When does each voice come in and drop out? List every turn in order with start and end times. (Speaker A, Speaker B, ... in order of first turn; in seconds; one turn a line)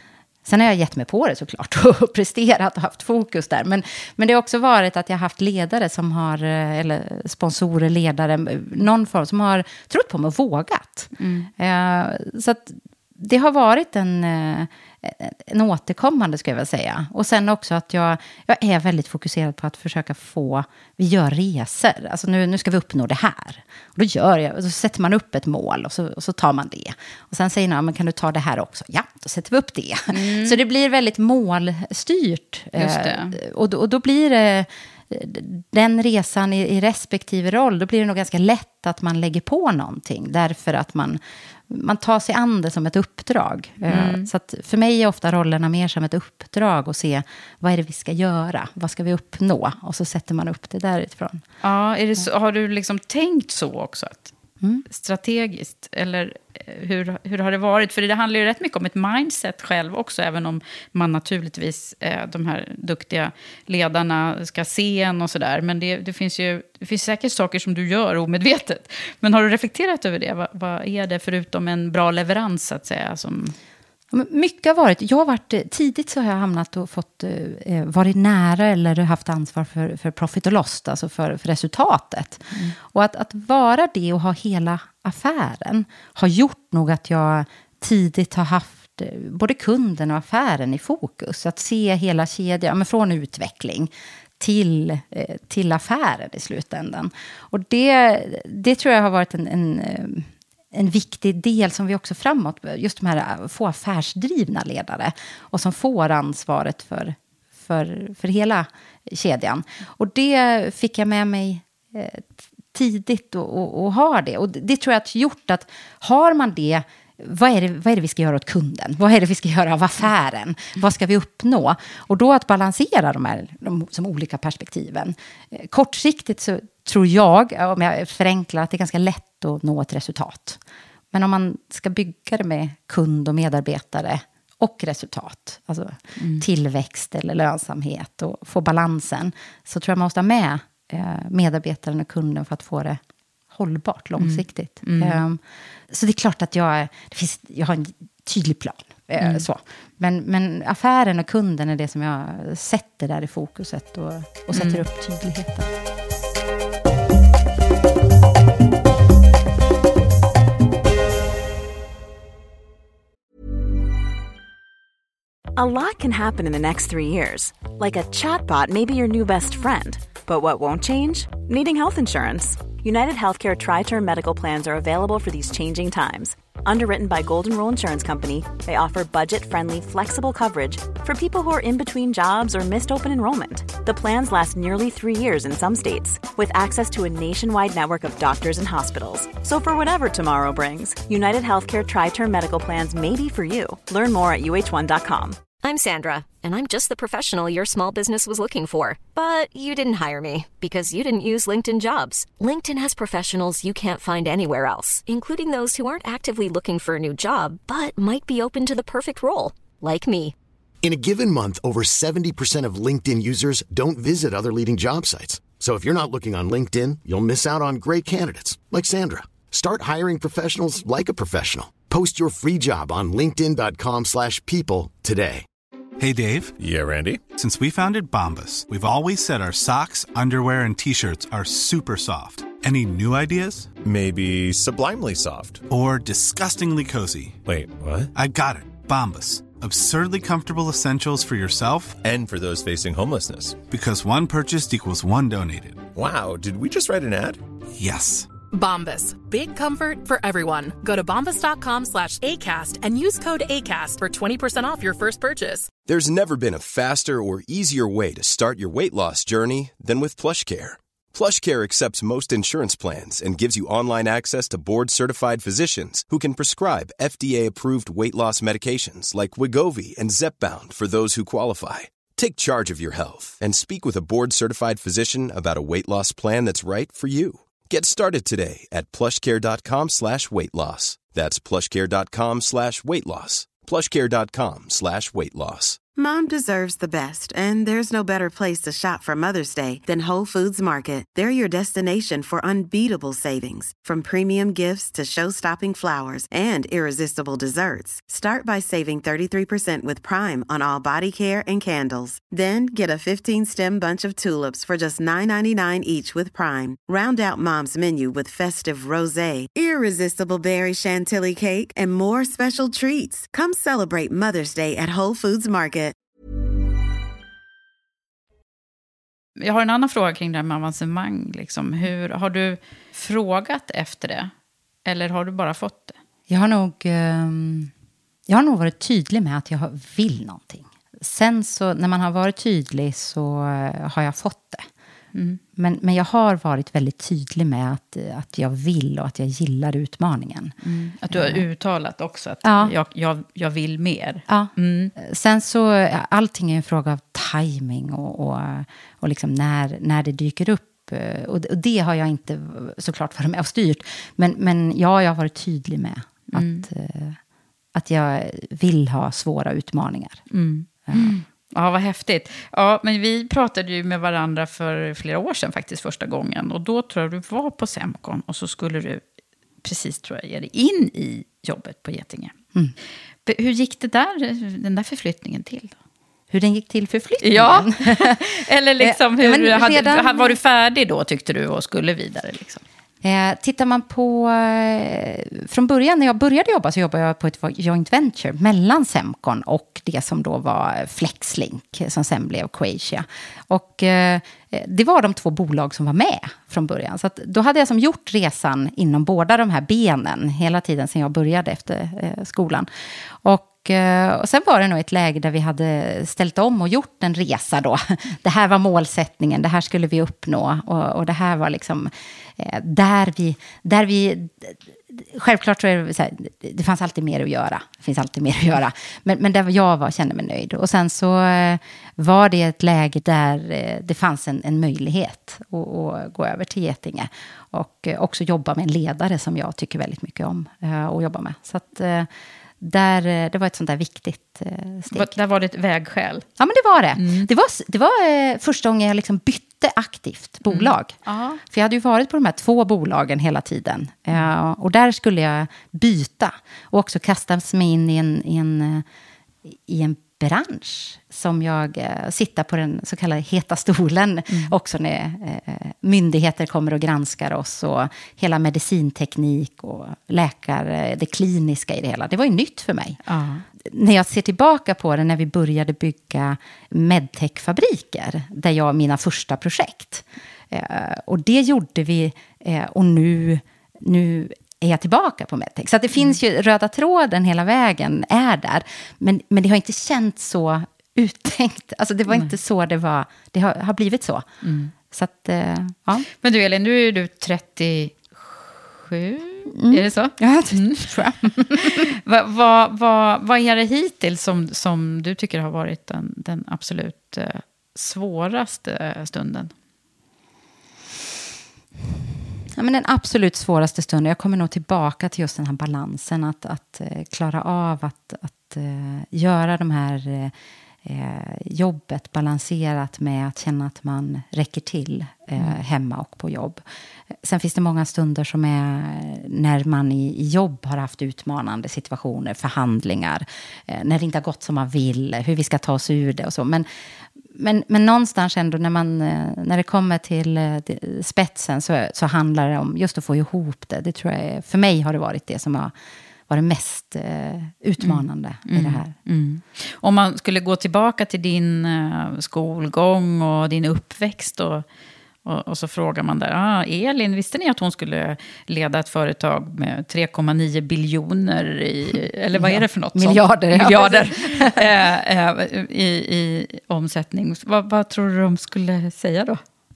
Speaker A: 0.5-51.4
Speaker B: 11.2-11.5
Speaker B: 30.1-30.6
Speaker B: 32.8-33.4
Speaker B: 43.9-44.3
Speaker B: 51.6-54.3
Speaker B: 54.9-73.5
Speaker A: 74.1-130.6
Speaker A: 131.1-155.7
Speaker B: 136.2-136.4
Speaker B: 144.2-145.2
Speaker B: 149.2-149.4
Speaker B: 154.5-154.8
Speaker C: 165.6-195.4
Speaker D: 195.6-210.3
Speaker E: 210.8-225.4
Speaker F: 226.0-226.6
Speaker G: 226.6-227.2
Speaker F: 227.4-233.7
Speaker G: 233.8-235.6
Speaker F: 235.7-237.4
Speaker G: 237.5-238.1
Speaker F: 238.1-242.0
Speaker G: 242.0-243.6
Speaker F: 243.7-245.8
Speaker G: 246.0-247.4
Speaker F: 247.8-248.3
Speaker H: 248.5-255.7
Speaker I: 255.8-285.8
Speaker J: 286.0-315.9
Speaker B: 319.4-324.3
Speaker B: 324.9-326.0
Speaker A: 326.3-327.7
Speaker A: 328.3-334.7
Speaker B: 335.1-335.4
Speaker A: 335.6-340.5
Speaker B: 340.6-344.9
Speaker A: 341.1-341.4
Speaker A: 342.4-342.7
Speaker A: 344.3-357.2
Speaker B: 356.3-356.7
Speaker A: 357.7-360.2
Speaker B: 360.3-369.0
Speaker A: 360.9-361.2
Speaker B: 369.6-372.4
Speaker B: 373.3-375.8
Speaker A: 376.3-378.2
Speaker B: 377.2-382.6
Speaker A: 378.8-380.4
Speaker A: 383.0-402.7
Speaker A: 403.2-432.1
Speaker A: 432.6-435.1
Speaker B: 434.9-436.2
Speaker A: 436.4-448.9
Speaker B: 437.0-437.3
Speaker B: 440.5-441.4
Speaker A: 449.5-463.0
Speaker B: 463.1-463.4
Speaker A: 463.6-484.3
Speaker B: 484.4-484.7
Speaker A: 484.9-486.1
Speaker B: 486.2-499.5
Speaker A: 489.6-491.9
Speaker A: 502.5-510.3
Speaker A: 510.8-516.6
Speaker A: 517.2-526.7
Speaker A: 527.3-535.7
Speaker A: 536.3-538.9
Speaker B: 537.8-544.6
Speaker B: 545.2-559.4
Speaker A: 552.4-554.6